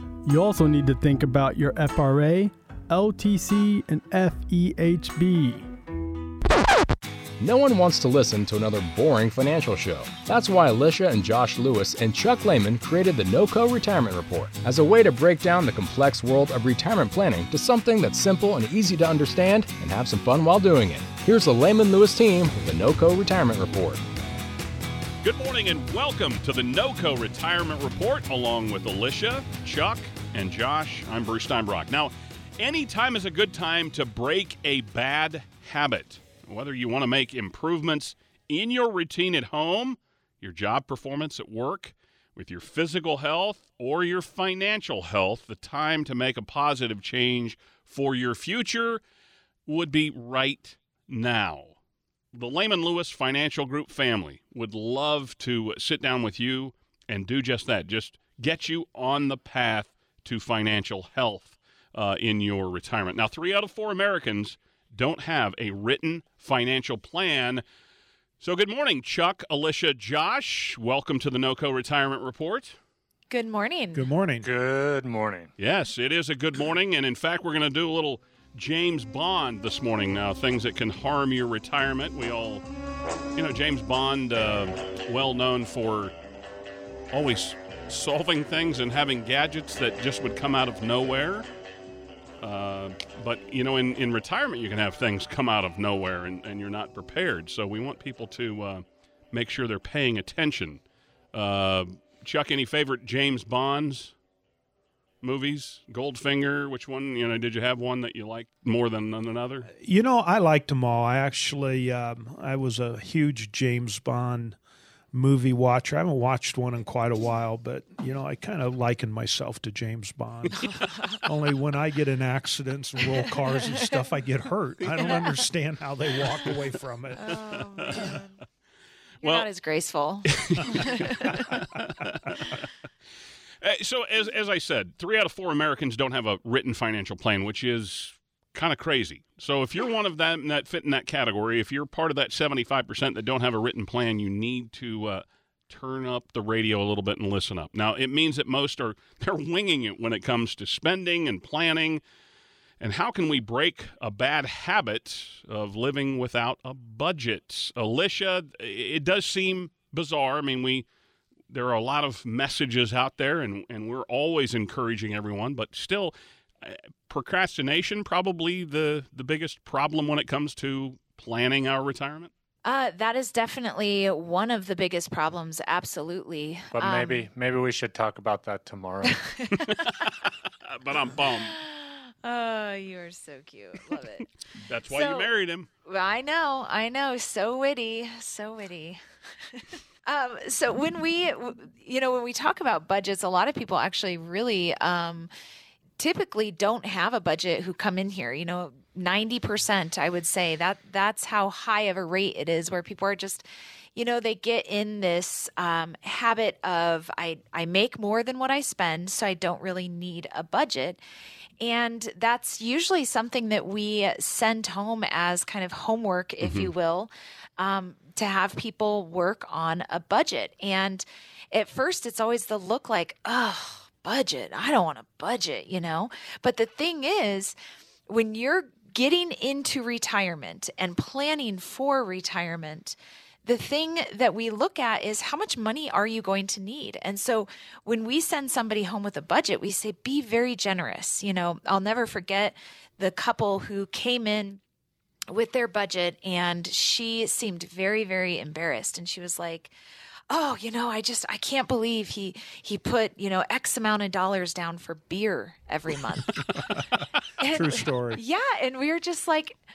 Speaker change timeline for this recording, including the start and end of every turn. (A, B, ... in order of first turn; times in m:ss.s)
0:00.2-0:05.7 A
0:07.4-0:24.0 B
0:25.2-0:49.0 C
0:49.7-0:51.8 C
0:52.3-1:07.6 C
1:08.4-1:12.8 C
1:13.3-1:14.1 D
1:13.9-1:14.5 E
1:14.4-1:15.5 F
1:15.6-1:22.6 C
1:23.4-1:26.1 C
1:27.1-1:31.5 C
1:32.4-1:40.8 C
1:41.3-1:44.2 C
1:45.2-1:49.7 C
1:49.8-1:54.6 E
1:55.1-2:07.4 E
2:07.2-2:08.4 D
2:09.2-2:09.5 C
2:09.2-2:11.6 D
2:10.2-2:12.7 C
2:13.6-2:32.0 C
2:32.8-2:40.8 C
2:41.5-2:52.3 C
2:52.6-2:57.3 D
2:56.8-2:59.3 F
2:59.3-3:00.1 D
2:59.7-3:01.6 C
3:01.4-3:04.3 D
3:04.6-3:05.7 C
3:04.9-3:05.3 D
3:05.9-3:09.0 D
3:09.5-3:15.3 D
3:16.0-3:31.0 D
3:31.6-3:47.6 D
3:36.4-3:36.7 C
3:48.1-4:04.6 D
4:05.3-4:09.7 D
4:10.3-4:16.4 D
4:17.4-4:19.6 D
4:17.5-4:18.2 E